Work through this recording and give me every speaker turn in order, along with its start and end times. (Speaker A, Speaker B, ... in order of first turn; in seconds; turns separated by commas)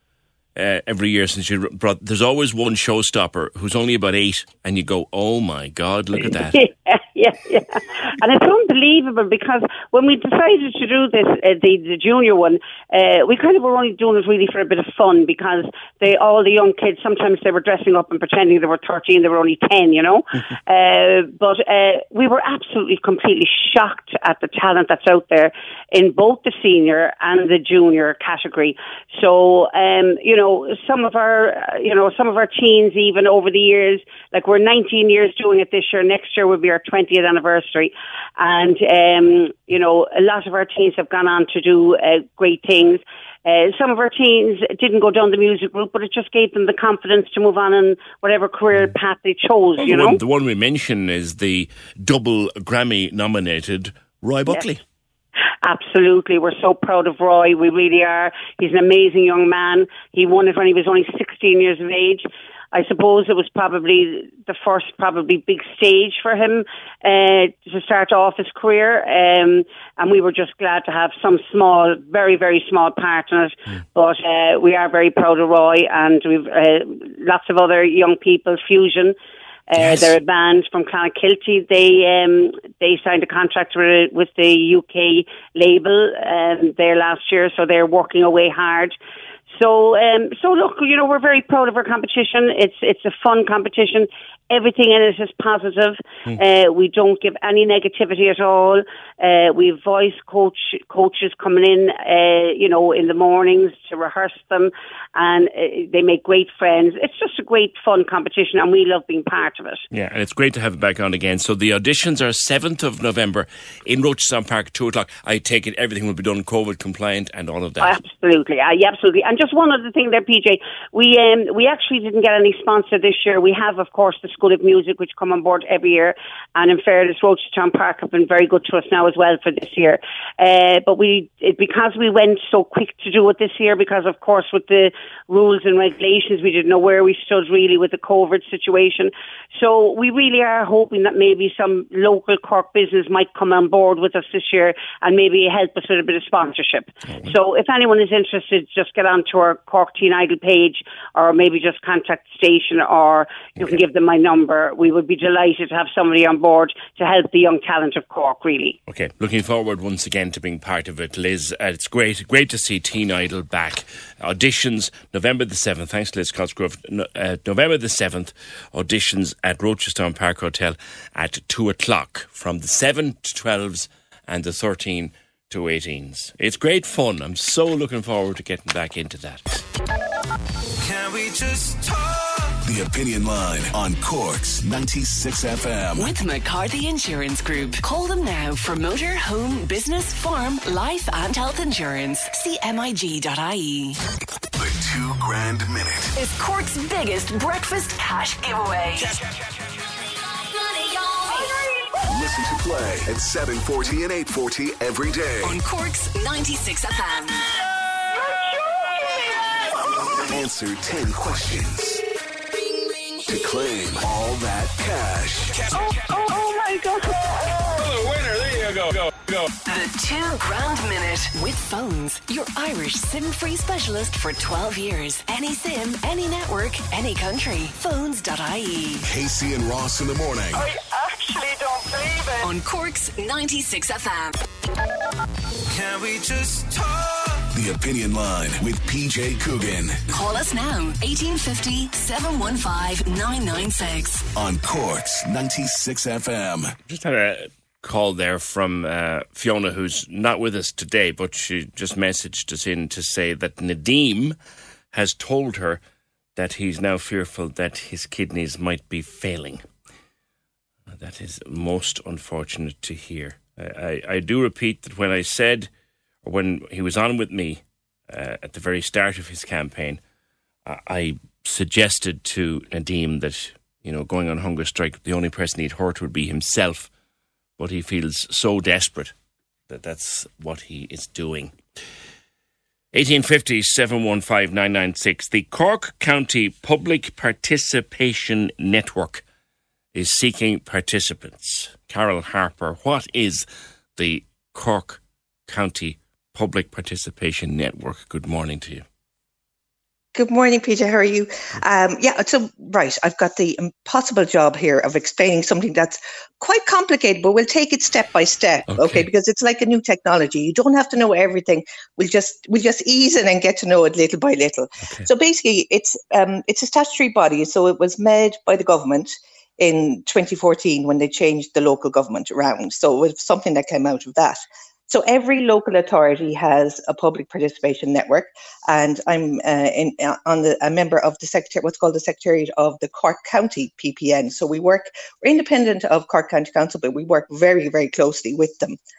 Speaker A: 0.6-6.6, Speaker B: 6.3-50.2, Speaker A: 49.8-54.8, Speaker B: 55.6-79.1, Speaker B: 79.7-89.0, Speaker A: 79.8-80.2, Speaker B: 89.5-109.8, Speaker A: 109.9-118.0, Speaker B: 117.8-158.8, Speaker A: 147.1-147.3, Speaker A: 158.9-179.6, Speaker C: 182.6-186.1, Speaker D: 185.9-193.9, Speaker C: 194.6-196.1, Speaker D: 196.2-199.1, Speaker C: 202.0-205.6, Speaker D: 205.4-207.4, Speaker E: 208.1-209.5, Speaker C: 210.1-212.0, Speaker C: 213.2-215.7, Speaker E: 216.1-218.2, Speaker D: 219.7-229.1, Speaker C: 229.0-230.6, Speaker E: 230.5-232.5, Speaker D: 232.4-234.4, Speaker C: 237.5-240.0, Speaker D: 240.1-244.2, Speaker C: 244.3-246.7, Speaker A: 246.9-254.3, Speaker A: 254.9-255.8, Speaker A: 256.4-259.6, Speaker A: 260.9-265.7, Speaker A: 266.2-270.0, Speaker A: 270.6-276.9, Speaker A: 277.6-279.1, Speaker A: 279.7-281.5, Speaker A: 282.9-289.2, Speaker A: 289.9-298.8, Speaker F: 300.1-338.8, Speaker A: 308.7-309.1